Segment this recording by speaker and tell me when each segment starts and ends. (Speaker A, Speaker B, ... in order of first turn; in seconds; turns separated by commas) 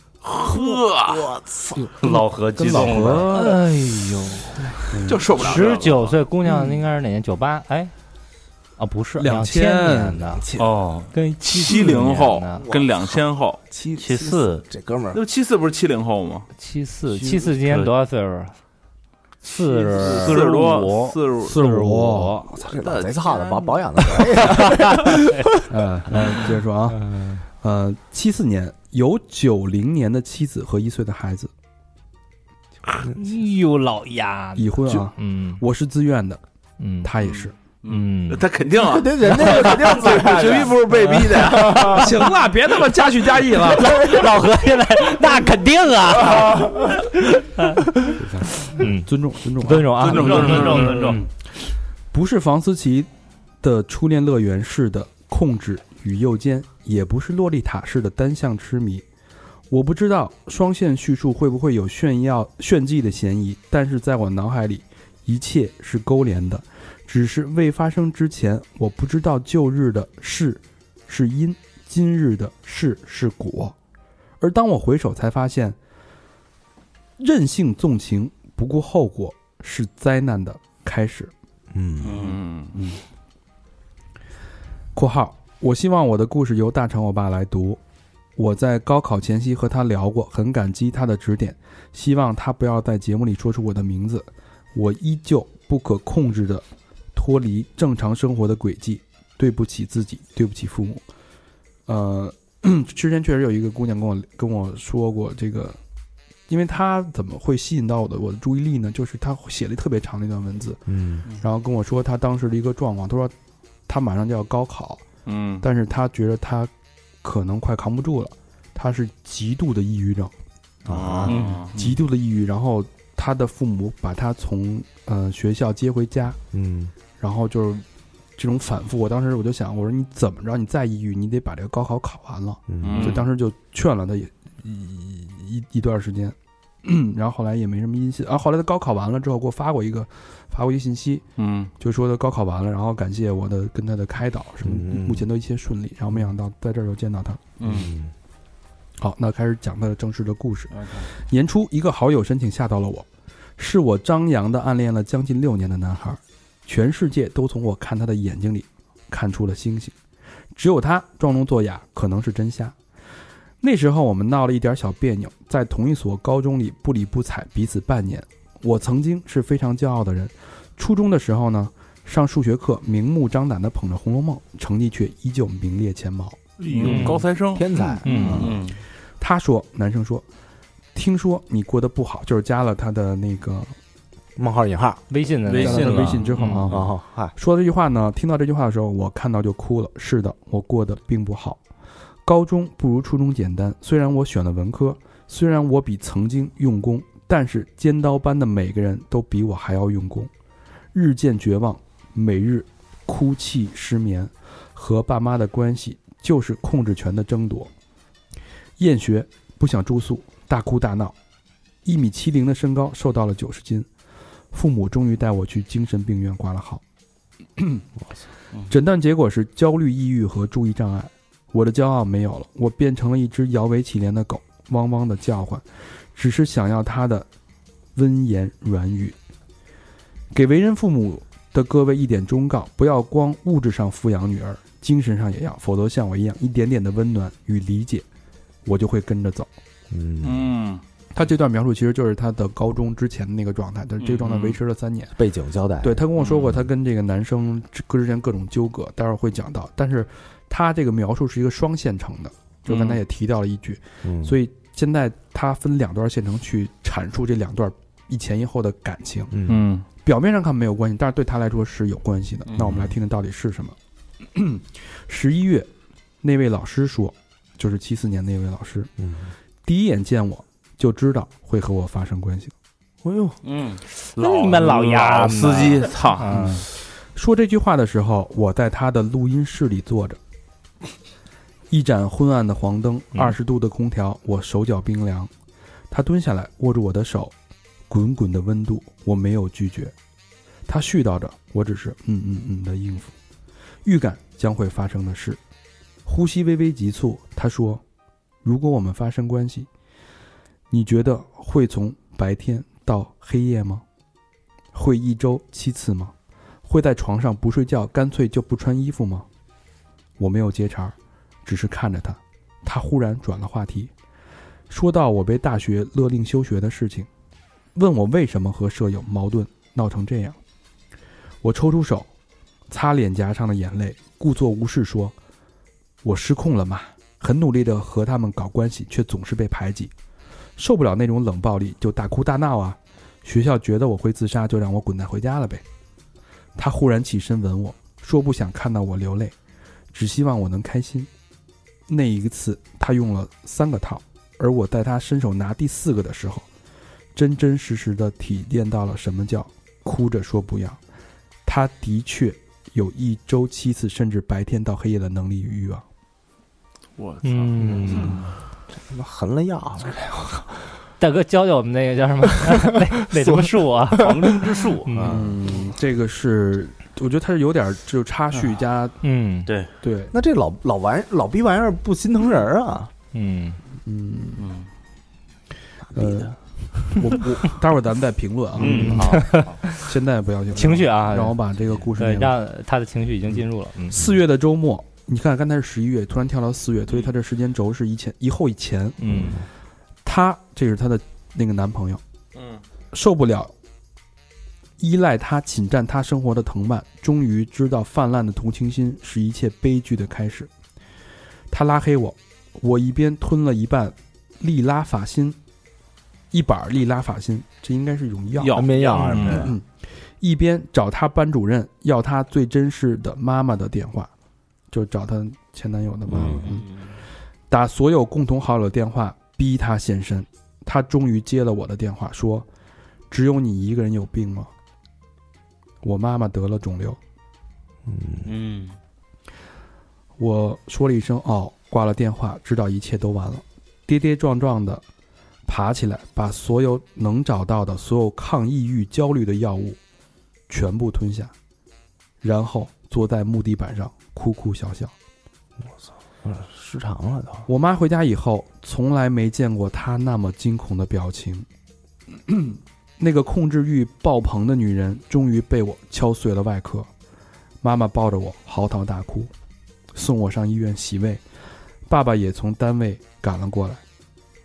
Speaker A: 0.2-1.4, Speaker B: 0.5-1.7, Speaker C: 1.8-3.6, Speaker D: 2.0-3.3, Speaker E: 3.3-7.9, Speaker C: 4.9-5.3, Speaker A: 5.0-6.1, Speaker E: 8.8-10.4, Speaker C: 9.2-10.7, Speaker D: 10.6-11.1, Speaker E: 11.1-12.6, Speaker A: 11.4-13.6, Speaker B: 12.6-13.2, Speaker B: 13.7-15.2, Speaker D: 14.0-14.6, Speaker A: 15.1-16.5, Speaker E: 16.6-18.5, Speaker D: 17.2-17.9, Speaker E: 19.4-22.5, Speaker A: 19.8-21.6, Speaker B: 20.0-20.3, Speaker D: 20.3-20.8, Speaker C: 21.4-22.4, Speaker B: 22.5-25.2, Speaker A: 22.6-23.8, Speaker E: 24.4-25.5, Speaker C: 25.7-31.5, Speaker E: 27.0-27.4, Speaker E: 33.1-35.6, Speaker C: 34.5-36.4, Speaker E: 36.8-37.1, Speaker C: 37.0-37.5, Speaker A: 37.2-37.5, Speaker E: 37.9-38.5, Speaker A: 38.0-42.1, Speaker B: 38.7-42.2, Speaker E: 39.5-39.9, Speaker E: 41.0-41.8, Speaker C: 41.8-44.0, Speaker E: 43.6-48.1, Speaker C: 48.1-51.2, Speaker E: 48.6-51.0, Speaker A: 49.9-51.2, Speaker D: 50.0-51.2, Speaker C: 52.1-53.1, Speaker C: 53.6-59.0, Speaker C: 59.7-73.7, Speaker C: 74.4-75.8, Speaker C: 77.2-81.3, Speaker B: 81.7-82.2, Speaker D: 82.0-82.4, Speaker A: 82.1-82.8, Speaker C: 82.7-83.0, Speaker C: 84.9-87.8, Speaker C: 88.3-101.0, Speaker C: 101.9-105.8, Speaker C: 106.5-113.3, Speaker B: 110.9-111.2, Speaker C: 113.9-115.0, Speaker A: 115.2-115.6, Speaker C: 115.6-116.7, Speaker C: 117.2-120.3, Speaker B: 120.8-121.4, Speaker A: 120.9-122.0, Speaker D: 121.3-121.6, Speaker C: 121.7-126.4, Speaker B: 126.5-126.9, Speaker C: 127.2-127.8, Speaker C: 128.4-141.2, Speaker B: 132.7-133.2, Speaker A: 132.8-133.2, Speaker A: 141.4-141.7, Speaker C: 141.8-147.4, Speaker B: 144.6-145.3, Speaker D: 147.6-147.9, Speaker B: 147.6-148.1, Speaker C: 149.0-153.1, Speaker C: 153.6-159.9, Speaker C: 160.5-162.7, Speaker C: 163.6-176.4, Speaker A: 176.6-177.7, Speaker D: 176.7-177.2, Speaker E: 176.8-177.2, Speaker B: 177.5-178.5, Speaker E: 178.0-178.5, Speaker D: 178.2-178.8, Speaker C: 179.2-180.2, Speaker C: 180.9-183.7, Speaker B: 184.4-185.0, Speaker E: 185.1-186.7, Speaker D: 185.5-186.7, Speaker C: 185.6-191.6, Speaker B: 186.7-187.3, Speaker C: 192.2-200.3, Speaker C: 200.9-207.7, Speaker C: 208.8-211.1, Speaker C: 211.8-213.9, Speaker C: 214.5-216.8, Speaker C: 217.6-217.8, Speaker C: 218.7-227.3, Speaker C: 227.9-229.2, Speaker C: 230.3-238.0, Speaker C: 238.6-239.5, Speaker B: 239.9-240.5, Speaker A: 240.2-240.8, Speaker C: 241.1-245.1, Speaker D: 244.1-244.5, Speaker B: 245.2-246.1, Speaker C: 245.8-263.8, Speaker D: 246.2-246.6, Speaker D: 252.7-253.0, Speaker B: 254.0-254.3, Speaker B: 259.3-259.6, Speaker A: 259.5-259.9, Speaker D: 262.5-262.8, Speaker C: 264.3-265.7, Speaker C: 266.2-268.9, Speaker B: 269.0-269.3, Speaker C: 269.6-272.5, Speaker B: 273.0-273.4, Speaker D: 273.4-275.6, Speaker E: 274.1-276.6, Speaker A: 275.2-276.6, Speaker C: 277.1-280.2, Speaker C: 281.7-285.3, Speaker C: 285.9-287.3, Speaker C: 287.9-289.9, Speaker C: 290.7-293.1, Speaker C: 293.8-295.4, Speaker C: 296.0-297.8, Speaker C: 298.4-299.7, Speaker C: 300.7-303.8, Speaker C: 304.7-306.1, Speaker C: 306.6-309.2, Speaker C: 310.2-313.9, Speaker C: 314.7-317.1, Speaker C: 317.7-320.4, Speaker C: 321.4-322.1, Speaker C: 322.7-325.1, Speaker C: 326.0-329.9, Speaker C: 330.6-335.6, Speaker C: 336.6-339.3, Speaker C: 339.9-341.1, Speaker C: 341.9-346.4, Speaker C: 347.1-350.8, Speaker C: 351.4-355.8, Speaker A: 357.0-358.3, Speaker E: 357.2-358.2, Speaker B: 357.6-358.2, Speaker B: 358.9-360.6, Speaker E: 361.0-365.2, Speaker B: 362.5-364.6, Speaker D: 363.9-365.2, Speaker C: 365.0-369.0, Speaker E: 369.0-369.5, Speaker D: 369.4-369.7, Speaker C: 369.8-370.1, Speaker B: 370.1-372.9, Speaker E: 373.1-373.6, Speaker C: 373.8-374.5, Speaker D: 374.4-374.6, Speaker B: 375.9-376.3, Speaker C: 375.9-382.4, Speaker D: 378.6-379.6, Speaker B: 378.6-379.0, Speaker E: 378.6-379.9, Speaker E: 380.5-381.4, Speaker E: 381.9-384.1, Speaker C: 383.9-389.2, Speaker E: 389.0-389.4, Speaker C: 390.0-392.0, Speaker A: 392.3-392.6, Speaker C: 392.9-393.5, Speaker C: 394.8-400.5, Speaker C: 401.5-405.4, Speaker C: 406.3-408.6, Speaker A: 408.4-409.5, Speaker B: 408.5-409.5, Speaker D: 409.1-409.4, Speaker C: 409.3-409.6, Speaker C: 410.2-414.1, Speaker C: 414.7-416.7, Speaker B: 416.1-416.5, Speaker D: 416.1-416.6, Speaker C: 417.5-422.5, Speaker C: 423.1-424.5, Speaker C: 425.8-427.0, Speaker B: 427.9-428.3, Speaker D: 428.2-428.8, Speaker C: 430.2-434.8, Speaker C: 435.4-439.8, Speaker C: 440.5-441.3, Speaker C: 442.2-444.9, Speaker B: 445.6-447.5, Speaker C: 447.4-451.4, Speaker C: 452.3-456.9, Speaker C: 457.6-459.3, Speaker C: 459.9-461.2, Speaker C: 461.9-463.8